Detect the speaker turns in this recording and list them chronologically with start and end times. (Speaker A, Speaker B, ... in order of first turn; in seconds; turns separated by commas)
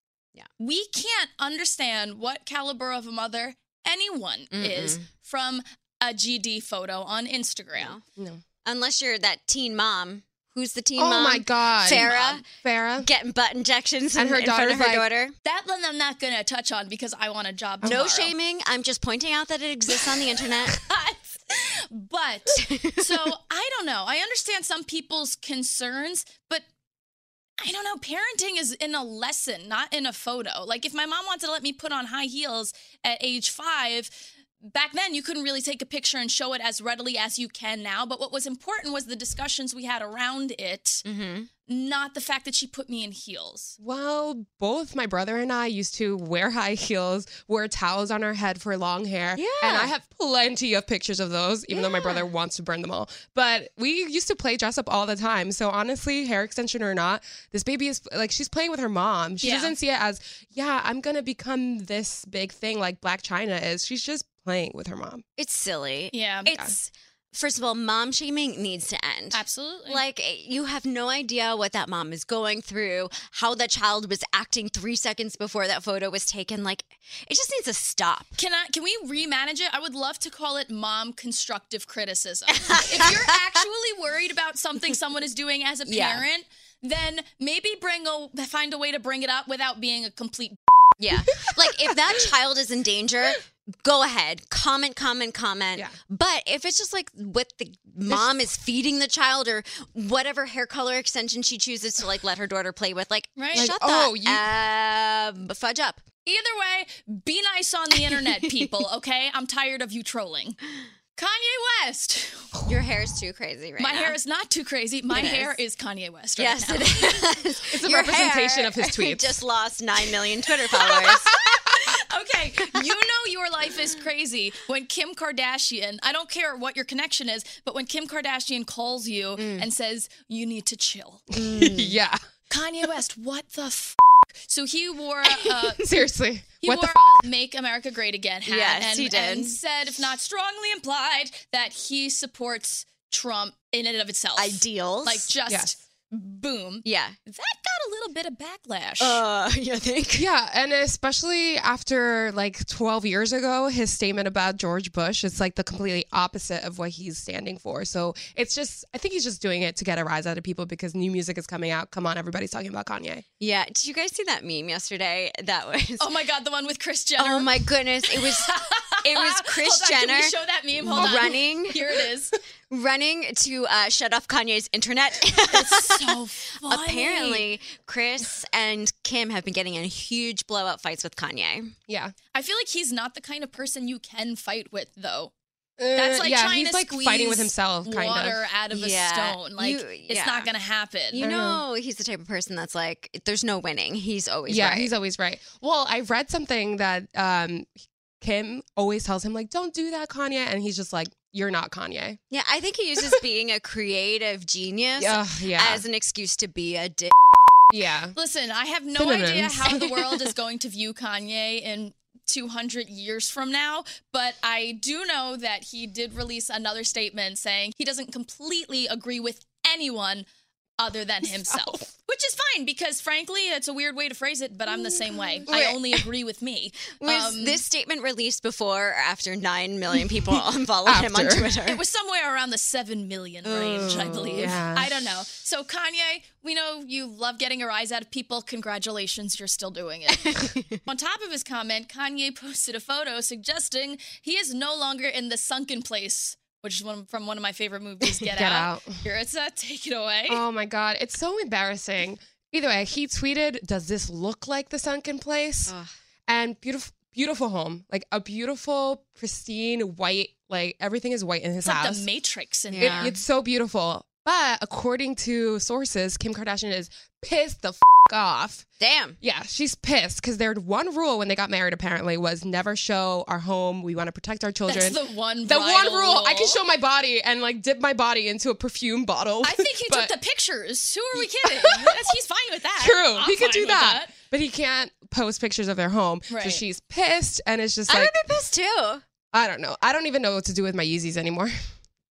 Speaker A: 0.6-8.0, Speaker B: 4.5-5.0, Speaker B: 8.7-12.5, Speaker C: 11.0-13.1, Speaker A: 11.9-12.4, Speaker B: 13.0-15.3, Speaker C: 14.2-15.1, Speaker A: 15.4-18.3, Speaker B: 17.8-20.8, Speaker A: 20.7-26.6, Speaker B: 22.6-23.1, Speaker A: 27.6-41.0, Speaker B: 41.0-41.5, Speaker A: 41.7-43.8, Speaker C: 43.8-65.2, Speaker B: 49.4-49.9, Speaker A: 59.4-59.8, Speaker B: 65.4-78.3, Speaker A: 66.1-66.5, Speaker C: 66.5-66.8, Speaker A: 69.3-70.0, Speaker A: 78.4-90.6, Speaker B: 82.6-83.3, Speaker B: 85.9-86.2, Speaker B: 91.0-106.0, Speaker A: 103.4-103.7, Speaker C: 103.5-104.5, Speaker A: 106.3-110.6, Speaker B: 108.1-108.5, Speaker A: 111.2-112.6, Speaker B: 112.7-114.2, Speaker A: 113.8-117.2, Speaker B: 115.1-115.6, Speaker B: 116.4-121.3, Speaker C: 117.7-119.4, Speaker C: 120.8-121.8, Speaker A: 121.3-131.3, Speaker B: 129.4-129.7, Speaker C: 131.3-132.2, Speaker B: 131.4-132.0, Speaker A: 132.5-135.9, Speaker C: 135.8-137.2, Speaker A: 136.6-149.2, Speaker B: 138.4-139.6, Speaker B: 144.4-145.3, Speaker C: 145.5-145.7, Speaker B: 146.8-147.2, Speaker B: 149.0-150.3, Speaker C: 150.1-163.2, Speaker B: 163.4-166.1, Speaker A: 166.0-167.6, Speaker B: 167.2-172.0, Speaker A: 168.1-172.4, Speaker C: 171.0-171.3, Speaker B: 172.7-181.7, Speaker A: 175.5-177.5, Speaker C: 181.9-182.1, Speaker A: 182.3-185.3, Speaker C: 185.8-188.4, Speaker A: 185.9-191.2, Speaker B: 188.7-190.5, Speaker B: 191.1-194.9, Speaker C: 191.2-191.6, Speaker C: 194.5-202.2, Speaker B: 202.3-207.6, Speaker C: 205.0-205.8, Speaker C: 207.7-208.2, Speaker A: 208.1-220.3, Speaker C: 209.0-209.9, Speaker A: 220.8-227.6, Speaker C: 221.5-221.8, Speaker B: 225.5-226.0, Speaker B: 227.0-231.8, Speaker C: 230.9-231.5, Speaker A: 231.6-250.4, Speaker B: 233.4-234.6, Speaker C: 234.3-234.9, Speaker B: 240.1-240.8, Speaker C: 248.3-249.0, Speaker C: 250.3-255.8, Speaker B: 255.7-255.9, Speaker C: 256.3-262.1, Speaker A: 261.6-263.1, Speaker B: 262.7-263.2, Speaker C: 262.8-268.6, Speaker B: 268.8-269.2, Speaker C: 269.2-280.1, Speaker A: 274.7-276.6, Speaker A: 279.4-284.1, Speaker C: 281.6-281.9, Speaker C: 282.8-288.1, Speaker A: 286.3-286.6, Speaker B: 287.9-289.0, Speaker C: 289.3-291.5